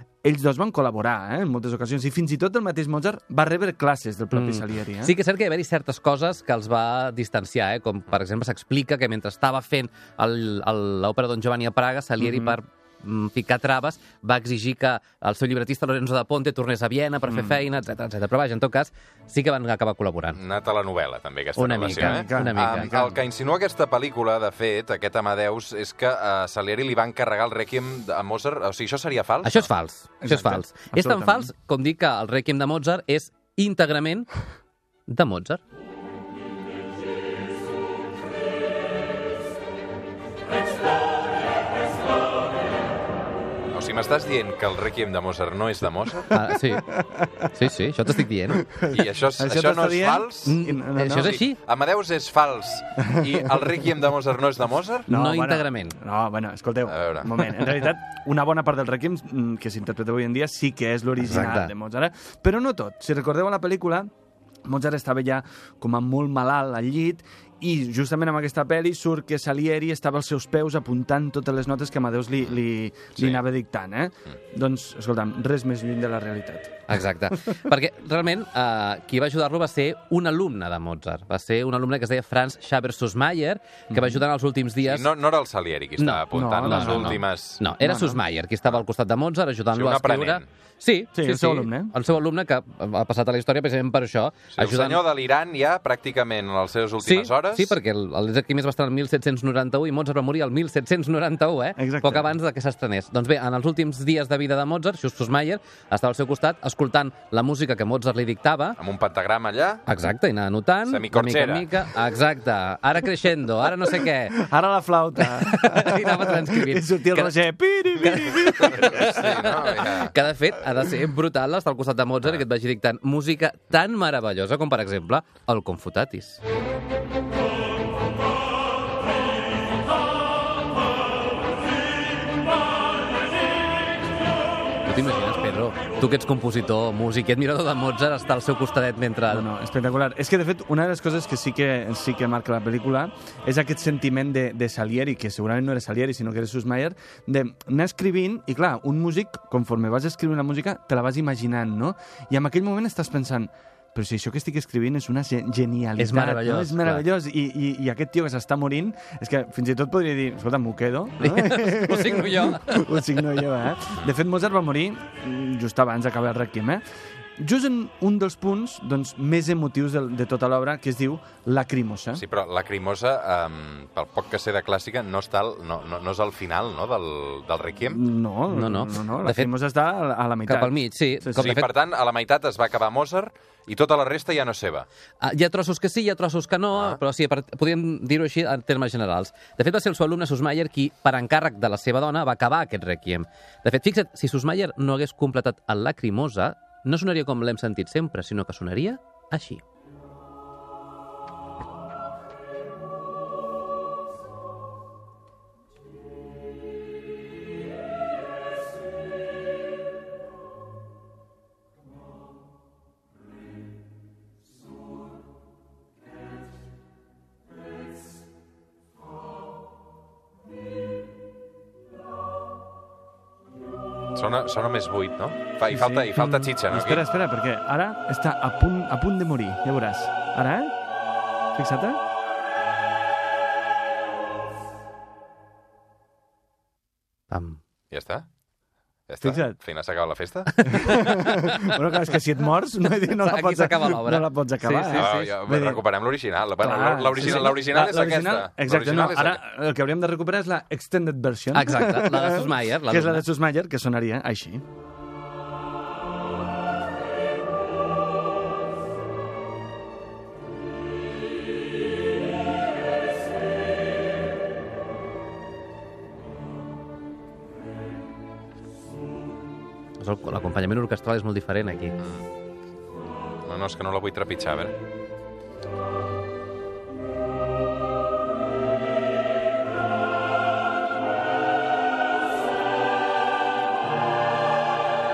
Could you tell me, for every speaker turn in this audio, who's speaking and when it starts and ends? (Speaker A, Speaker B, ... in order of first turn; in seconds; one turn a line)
Speaker A: 0.2-5.2
Speaker B: 4.3-20.4
Speaker A: 12.2-12.6
Speaker A: 17.3-17.6
Speaker C: 20.3-29.7
Speaker B: 21.6-22.9
Speaker A: 21.8-23.2
Speaker B: 29.4-34.3
Speaker A: 30.2-31.5
Speaker B: 35.1-35.6
Speaker C: 43.7-46.3
Speaker A: 46.3-47.5
Speaker B: 46.3-48.7
Speaker A: 48.5-51.4
Speaker C: 48.8-50.6
Speaker B: 50.5-51.6
Speaker C: 51.1-55.1
Speaker A: 55.1-64.1
Speaker B: 55.1-56.0
Speaker C: 56.9-57.5
Speaker B: 61.2-61.7
Speaker A: 64.7-77.0
Speaker C: 73.2-73.4
Speaker B: 76.9-85.1
Speaker A: 83.9-84.2
Speaker C: 84.8-87.7
Speaker B: 86.0-95.0
Speaker A: 86.3-87.2
Speaker A: 87.8-88.2
Speaker C: 89.7-90.5
Speaker A: 91.1-92.0
Speaker C: 94.5-97.8
Speaker B: 97.0-108.8
Speaker A: 101.8-102.4
Speaker C: 108.8-109.8
Speaker B: 109.9-114.4
Speaker C: 110.9-111.8
Speaker A: 114.3-119.1
Speaker B: 115.2-117.3
Speaker B: 118.0-126.4
Speaker C: 118.6-120.1
Speaker B: 134.8-139.5
Speaker A: 139.3-166.8
Speaker B: 156.0-157.1
Speaker B: 161.2-163.1
Speaker A: 167.4-172.2
Speaker C: 172.2-178.0
Speaker A: 177.9-181.6
Speaker B: 178.5-179.5
Speaker B: 180.4-181.7
Speaker C: 181.4-184.9
Speaker B: 185.2-199.6
Speaker C: 186.7-187.0
Speaker C: 224.1-227.1
Speaker A: 225.7-230.7
Speaker A: 231.6-232.0
Speaker B: 237.3-237.6
Speaker C: 237.9-238.3
Speaker C: 239.1-241.0
Speaker A: 239.2-239.6
Speaker A: 240.6-245.8
Speaker B: 240.7-241.4
Speaker B: 243.0-245.4
Speaker C: 244.9-249.4
Speaker A: 246.6-254.6
Speaker B: 251.5-253.3
Speaker B: 270.0-272.0
Speaker C: 272.0-272.2
Speaker C: 273.4-274.8